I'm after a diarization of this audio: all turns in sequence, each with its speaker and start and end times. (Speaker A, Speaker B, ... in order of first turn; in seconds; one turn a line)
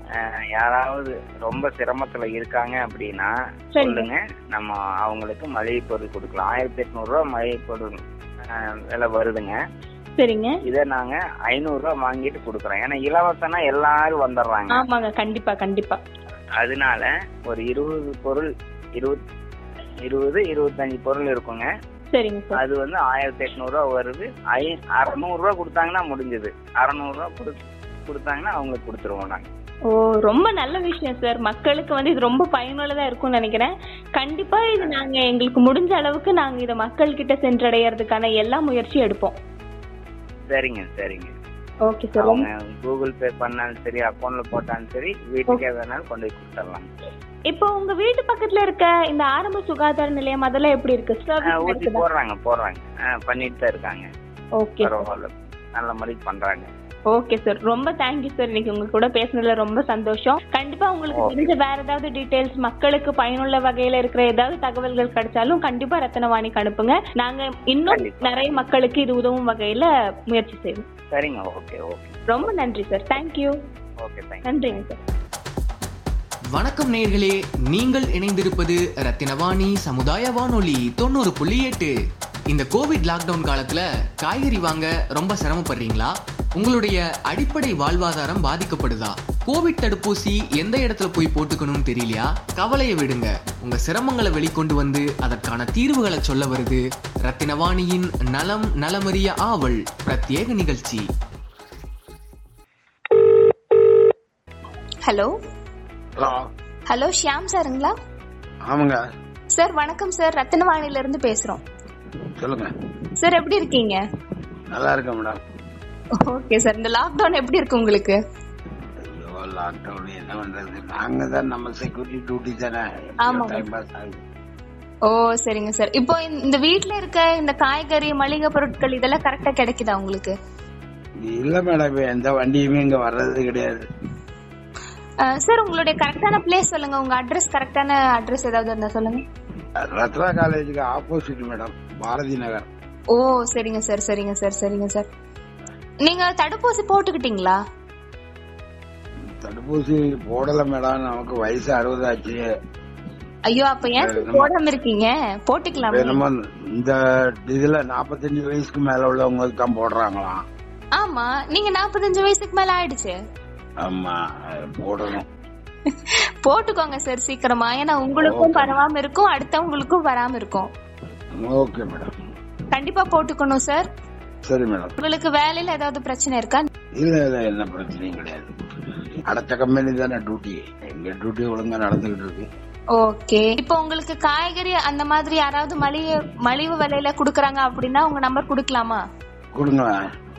Speaker A: 0.1-7.9
Speaker B: 3.8-4.1
Speaker A: 8.4-9.6
Speaker B: 10.2-10.6
Speaker A: 10.7-14.8
Speaker B: 14.7-16.0
Speaker A: 16.6-19.2
Speaker A: 20.1-21.7
Speaker B: 22.1-22.6
Speaker A: 22.6-27.6
Speaker A: 28.1-29.5
Speaker B: 29.9-39.4
Speaker A: 40.5-41.3
Speaker B: 41.9-42.5
Speaker A: 42.2-46.9
Speaker B: 47.5-52.0
Speaker A: 51.5-54.1
Speaker B: 54.6-55.0
Speaker A: 54.8-56.7
Speaker B: 57.1-70.9
Speaker A: 61.1-61.5
Speaker A: 67.9-68.6
Speaker A: 71.1-72.2
Speaker B: 72.3-73.6
Speaker A: 74.0-74.8
Speaker B: 74.4-75.0
Speaker C: 76.5-81.9
Speaker C: 82.5-101.0
Speaker D: 105.0-105.3
Speaker E: 106.2-106.5
Speaker D: 106.9-108.0
Speaker E: 108.7-109.0
Speaker D: 109.5-111.6
Speaker E: 112.4-112.7
Speaker D: 113.2-114.0
Speaker E: 114.7-115.4
Speaker D: 116.2-118.2
Speaker E: 119.1-124.2
Speaker D: 123.2-123.6
Speaker D: 125.1-130.3
Speaker E: 131.2-133.8
Speaker D: 135.2-139.2
Speaker E: 139.8-142.7
Speaker D: 143.1-145.1
Speaker D: 146.0-147.6
Speaker E: 149.4-152.4
Speaker D: 153.5-156.2
Speaker E: 153.9-154.5
Speaker E: 155.8-160.4
Speaker D: 161.0-163.2
Speaker E: 163.8-165.3
Speaker D: 166.4-170.7
Speaker E: 168.2-168.8
Speaker E: 171.4-172.1
Speaker D: 172.7-173.9
Speaker E: 174.5-174.9
Speaker D: 175.0-176.7
Speaker E: 177.0-178.5
Speaker E: 179.3-182.5
Speaker D: 182.9-189.0
Speaker E: 189.6-189.9